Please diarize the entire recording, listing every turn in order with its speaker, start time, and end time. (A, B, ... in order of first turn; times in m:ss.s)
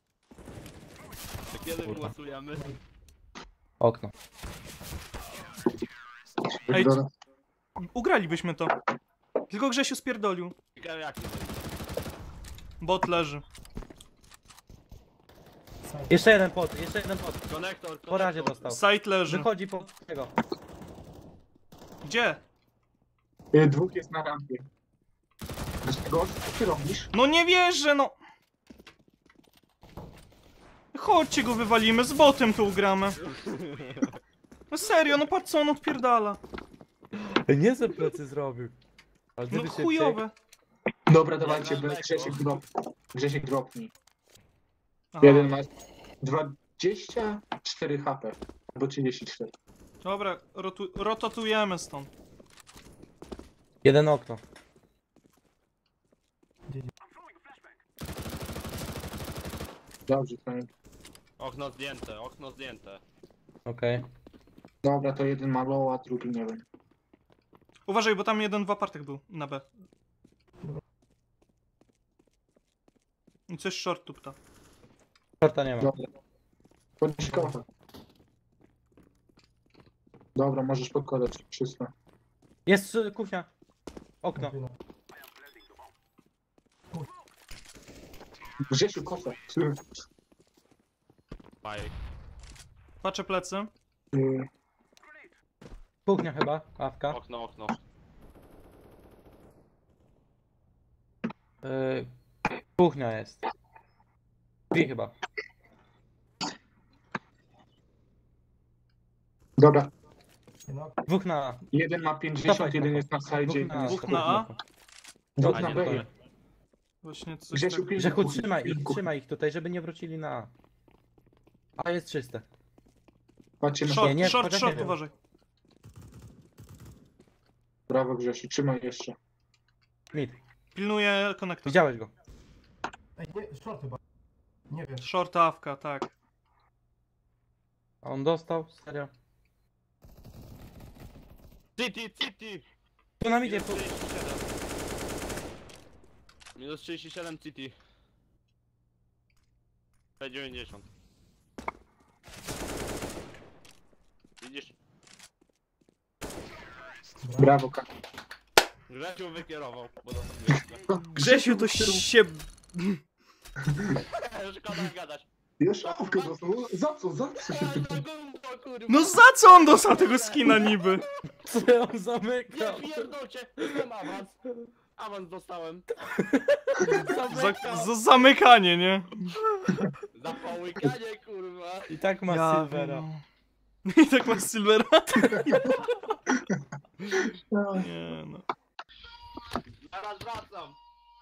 0:01.5-0:02.7 A
0:01.8-0:02.1 B
0:03.8-0:04.1 B
0:06.7-0:07.1 C
0:06.7-0:07.0 D
0:07.9-0:08.7 D
0:09.5-0:10.5 D
0:10.8-0:11.6 A
0:12.8-0:13.4 D
0:15.8-0:16.2 E
0:16.1-0:17.4 B
0:17.5-0:18.8 A
0:18.1-0:20.3 B
0:18.7-0:19.5 D
0:22.0-0:22.4 D
0:23.5-0:24.7 C
0:25.8-0:27.1 C
0:27.1-0:28.2 D
0:30.9-0:33.2 D
0:33.2-0:34.2 A
0:34.7-0:36.4 D
0:37.5-0:38.7 B
0:39.4-0:40.2 B
0:39.5-0:40.3 D
0:41.1-0:43.9 C
0:41.4-0:42.6 A
0:45.1-0:45.6 D
0:45.2-0:45.7 C
0:46.2-0:49.5 C
0:50.0-0:52.1 D
0:53.8-0:54.4 B
1:00.1-1:00.7 C
1:01.4-1:03.0 A
1:03.7-1:04.0 B
1:04.8-1:06.6 C
1:07.9-1:09.7 D
1:13.5-1:14.4 D
1:15.4-1:15.9 B
1:15.8-1:16.1 C
1:17.0-1:17.6 C
1:17.3-1:17.6 E
1:20.4-1:21.9 C
1:22.7-1:23.5 B
1:24.2-1:24.5 B
1:24.4-1:24.8 E
1:28.7-1:29.8 C
1:31.6-1:32.0 A
1:33.0-1:33.7 D
1:34.1-1:34.5 C
1:36.1-1:37.2 B
1:37.1-1:37.8 A
1:41.6-1:42.1 B
1:42.8-1:43.4 B
1:44.7-1:45.1 B
1:49.6-1:49.9 C
1:50.7-1:51.0 E
1:51.1-1:51.6 B
1:51.7-1:54.4 C
1:52.4-1:54.6 B
1:53.8-1:54.5 D
1:55.4-1:56.1 C
1:55.5-1:56.1 B
1:55.5-1:56.1 A
1:57.0-1:57.9 D
1:57.5-1:59.0 C
1:58.0-2:00.5 B
2:01.8-2:02.4 B
2:03.6-2:04.4 C
2:03.8-2:05.1 D
2:03.9-2:04.9 B
2:04.7-2:04.9 E
2:07.9-2:09.2 C
2:10.1-2:10.4 B
2:10.8-2:11.8 D
2:11.6-2:12.1 B
2:13.2-2:14.0 E
2:14.7-2:15.1 E
2:15.0-2:16.1 D
2:18.0-2:19.1 B
2:21.8-2:22.6 A
2:23.2-2:23.8 B
2:23.4-2:24.5 A
2:26.6-2:27.8 A
2:30.2-2:30.9 A
2:34.4-2:34.8 A
2:37.2-2:37.6 E
2:37.4-2:37.9 C
2:38.9-2:40.9 A
2:40.9-2:42.0 C
2:41.2-2:43.0 D
2:43.7-2:44.0 C
2:44.1-2:45.3 A
2:45.6-2:48.0 C
2:45.8-2:46.3 A
2:47.5-2:49.2 A
2:48.9-2:51.0 D
2:49.7-2:51.1 A
2:51.4-2:53.1 B
2:52.5-2:54.4 A
2:55.0-2:55.9 A
2:56.0-2:57.7 B
2:56.8-2:57.1 C
2:57.1-2:57.9 A
2:57.3-2:59.4 D
3:00.1-3:02.0 A
3:01.9-3:03.1 B
3:02.3-3:03.2 D
3:03.9-3:05.9 D
3:05.5-3:05.8 C
3:06.3-3:06.6 C
3:07.2-3:07.9 C
3:07.7-3:08.4 D
3:09.7-3:10.8 A